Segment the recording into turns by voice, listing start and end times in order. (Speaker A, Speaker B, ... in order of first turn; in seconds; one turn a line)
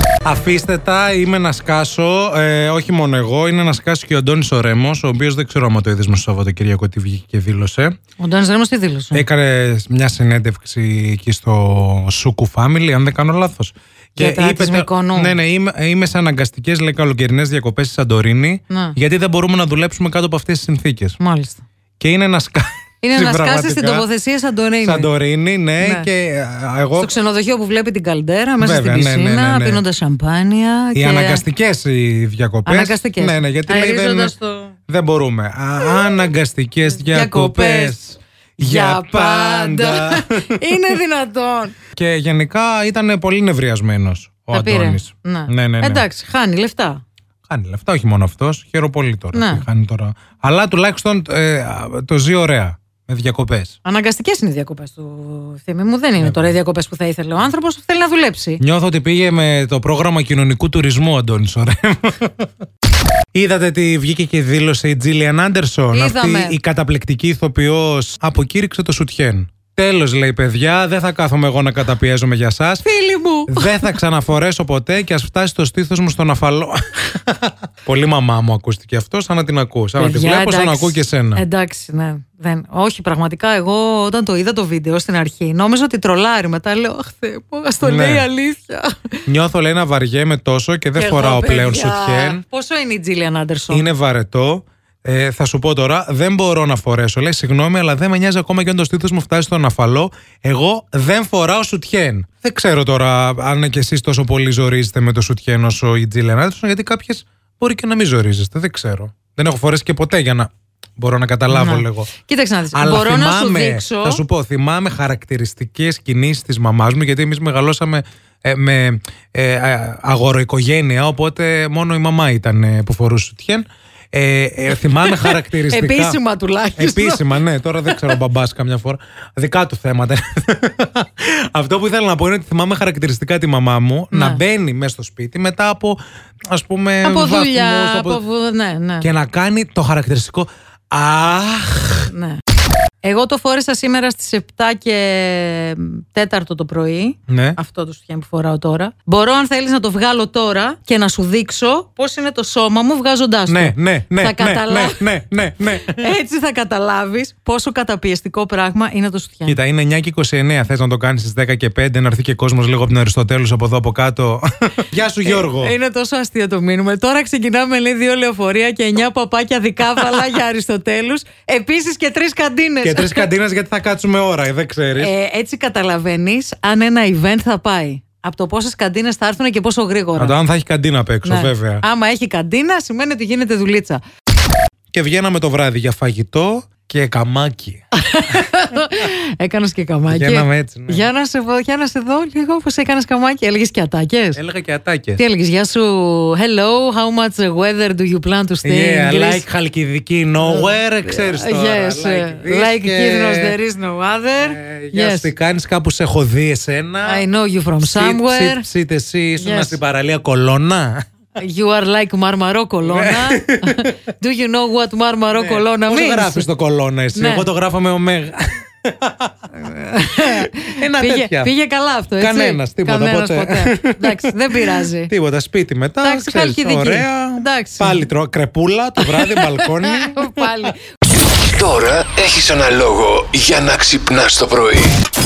Speaker A: 0.2-8.0
Speaker B: 8.2-9.3
Speaker A: 9.1-21.2
Speaker B: 14.2-15.4
Speaker B: 18.7-19.0
Speaker B: 21.2-21.6
Speaker A: 22.0-24.1
Speaker B: 23.0-25.1
Speaker A: 24.8-27.1
Speaker B: 25.8-26.1
Speaker B: 27.0-31.4
Speaker A: 28.6-29.8
Speaker A: 30.9-34.3
Speaker B: 32.7-34.8
Speaker A: 34.9-40.9
Speaker B: 36.9-38.0
Speaker B: 38.6-41.8
Speaker A: 41.9-46.0
Speaker B: 44.5-47.0
Speaker A: 47.5-53.8
Speaker B: 49.3-49.7
Speaker B: 53.8-58.6
Speaker A: 56.2-56.5
Speaker A: 58.6-62.5
Speaker A: 63.3-72.9
Speaker B: 65.9-66.6
Speaker B: 72.8-73.8
Speaker A: 73.5-81.4
Speaker B: 80.0-89.1
Speaker A: 87.8-88.3
Speaker A: 89.3-92.5
Speaker B: 91.0-93.9
Speaker A: 93.7-112.1
Speaker B: 111.5-114.2
Speaker A: 112.7-126.2
Speaker B: 125.0-128.2
Speaker A: 126.8-138.2
Speaker B: 134.1-134.4
Speaker B: 137.0-139.1
Speaker A: 139.0-142.1
Speaker B: 142.1-142.4
Speaker B: 143.0-159.6
Speaker A: 147.3-147.6
Speaker A: 153.5-156.1
Speaker A: 159.5-165.8
Speaker B: 165.2-173.3
Speaker A: 172.8-175.1
Speaker B: 175.0-180.4
Speaker A: 180.2-181.8
Speaker B: 181.2-184.0
Speaker A: 184.9-187.8
Speaker B: 187.9-194.4
Speaker A: 190.1-191.1
Speaker A: 194.3-195.2
Speaker B: 195.2-199.4
Speaker A: 198.6-203.6
Speaker B: 200.4-205.3
Speaker A: 204.4-207.2
Speaker B: 207.0-208.7
Speaker A: 207.8-211.1
Speaker B: 209.4-209.8
Speaker B: 211.4-216.5
Speaker A: 212.8-213.9
Speaker A: 215.3-219.3
Speaker B: 217.1-217.5
Speaker B: 219.5-225.1
Speaker A: 220.2-221.5
Speaker A: 222.2-230.7
Speaker B: 226.0-228.1
Speaker B: 229.0-230.8
Speaker C: 231.3-235.0